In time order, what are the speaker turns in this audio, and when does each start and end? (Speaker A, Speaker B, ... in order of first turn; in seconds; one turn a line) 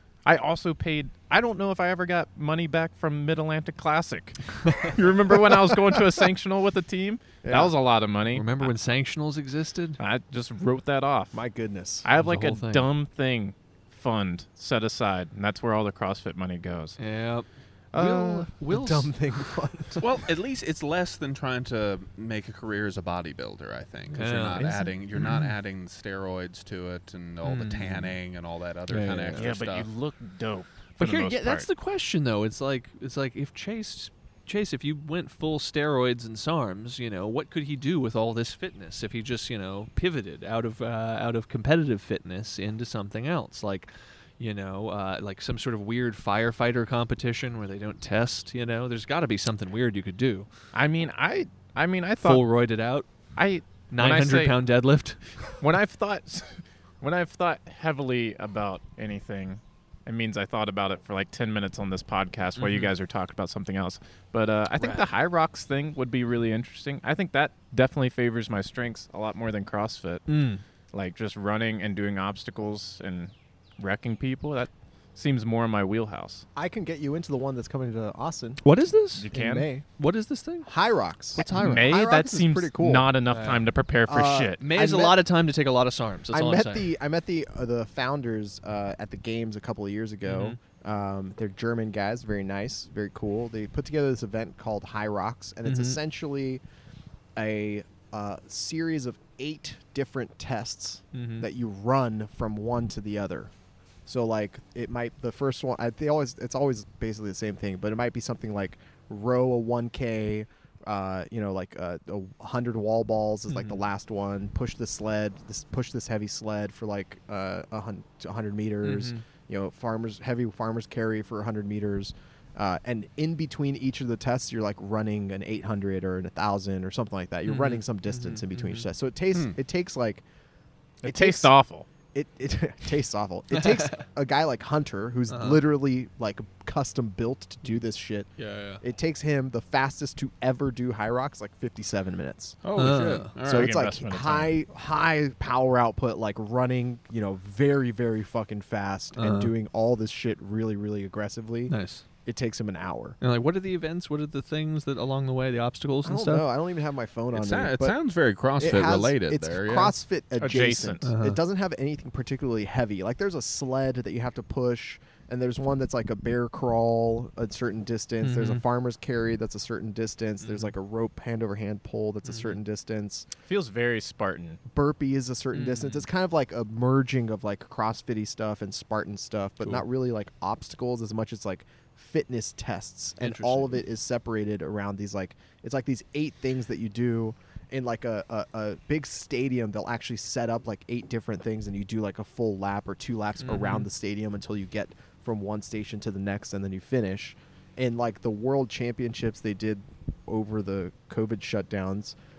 Speaker A: 0.2-8.7
Speaker B: 7.4-7.7
Speaker C: 8.3-10.0
Speaker A: 10.0-11.4
Speaker B: 11.3-12.1
Speaker A: 12.0-17.0
Speaker C: 12.2-12.9
Speaker C: 17.0-19.1
Speaker A: 17.9-18.4
Speaker B: 18.0-20.0
Speaker D: 20.0-29.9
Speaker C: 24.1-25.5
Speaker A: 24.5-25.0
Speaker C: 27.4-28.1
Speaker C: 28.9-29.5
Speaker A: 29.3-31.7
Speaker C: 31.0-50.5
Speaker A: 50.7-52.4
Speaker C: 52.2-53.1
Speaker A: 53.4-54.6
Speaker C: 53.9-55.4
Speaker A: 55.6-70.3
Speaker C: 62.5-62.9
Speaker C: 70.3-70.6
Speaker A: 70.9-76.5
Speaker B: 76.5-78.6
Speaker C: 78.6-79.3
Speaker A: 79.2-79.7
Speaker B: 79.3-79.8
Speaker C: 80.0-80.7
Speaker B: 80.7-83.1
Speaker C: 81.3-81.9
Speaker A: 81.5-84.6
Speaker C: 83.3-83.7
Speaker B: 84.1-85.2
Speaker C: 84.6-86.9
Speaker B: 86.3-96.6
Speaker C: 90.2-90.6
Speaker C: 95.6-96.0
Speaker B: 97.3-103.5
Speaker C: 101.1-101.5
Speaker B: 104.0-130.2
Speaker C: 113.5-113.8
Speaker C: 118.8-119.2
Speaker C: 127.4-128.9
Speaker A: 131.0-131.9
Speaker B: 131.0-131.5
Speaker B: 132.1-138.3
Speaker C: 133.5-134.0
Speaker C: 135.3-135.6
Speaker C: 138.4-138.8
Speaker B: 138.8-142.6
Speaker D: 142.6-143.8
Speaker C: 142.7-143.3
Speaker A: 143.4-144.6
Speaker B: 143.4-153.2
Speaker C: 149.2-149.5
Speaker C: 151.7-152.0
Speaker C: 153.2-156.4
Speaker B: 156.0-157.9
Speaker D: 157.3-159.9
Speaker B: 158.6-173.3
Speaker A: 160.4-161.1
Speaker C: 161.0-161.4
Speaker C: 168.2-168.6
Speaker C: 170.4-170.7
Speaker A: 173.4-174.6
Speaker B: 174.7-202.1
Speaker C: 175.5-176.1
Speaker C: 183.2-183.8
Speaker C: 193.4-193.9